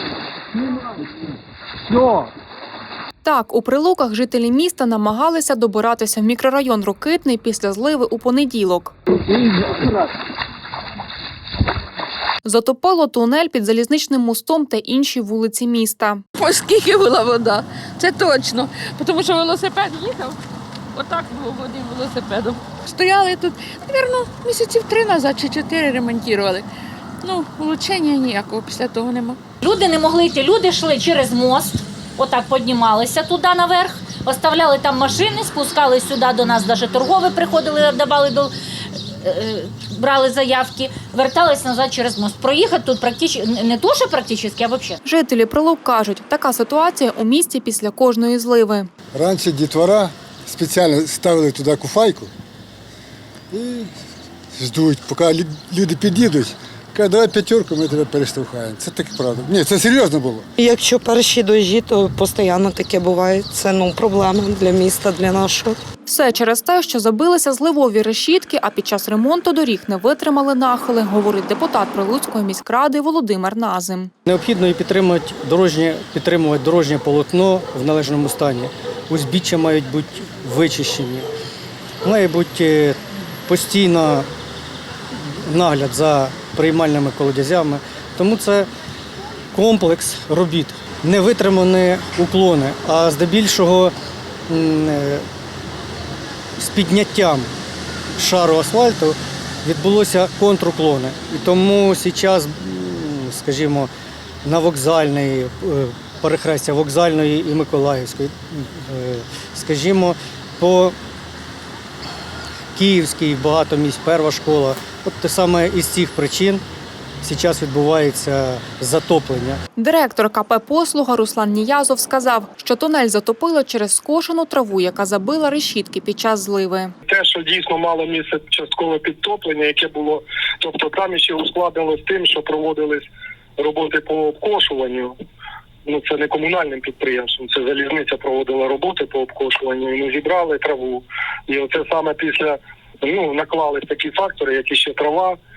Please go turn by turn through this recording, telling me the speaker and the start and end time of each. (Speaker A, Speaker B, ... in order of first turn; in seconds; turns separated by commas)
Speaker A: 3.2-8.9, Speaker A: 12.4-16.2, Speaker B: 16.4-20.4, Speaker B: 20.9-26.6, Speaker B: 27.2-29.4, Speaker C: 29.6-38.5, Speaker C: 39.2-45.0, Speaker A: 45.0-48.9, Speaker D: 49.1-52.3, Speaker D: 53.5-53.9, Speaker D: 54.5-60.5, Speaker E: 60.6-65.8, Speaker A: 66.1-74.1, Speaker F: 74.2-81.3, Speaker F: 82.0-84.3, Speaker F: 85.1-88.7, Speaker F: 89.5-93.9, Speaker F: 94.5-95.2, Speaker F: 96.6-97.5, Speaker F: 98.2-103.9, Speaker F: 104.4-111.0, Speaker F: 112.7-116.6, Speaker F: 117.2-119.6, Speaker A: 119.8-126.9, Speaker G: 127.0-133.1, Speaker G: 133.6-135.1, Speaker G: 135.8-145.4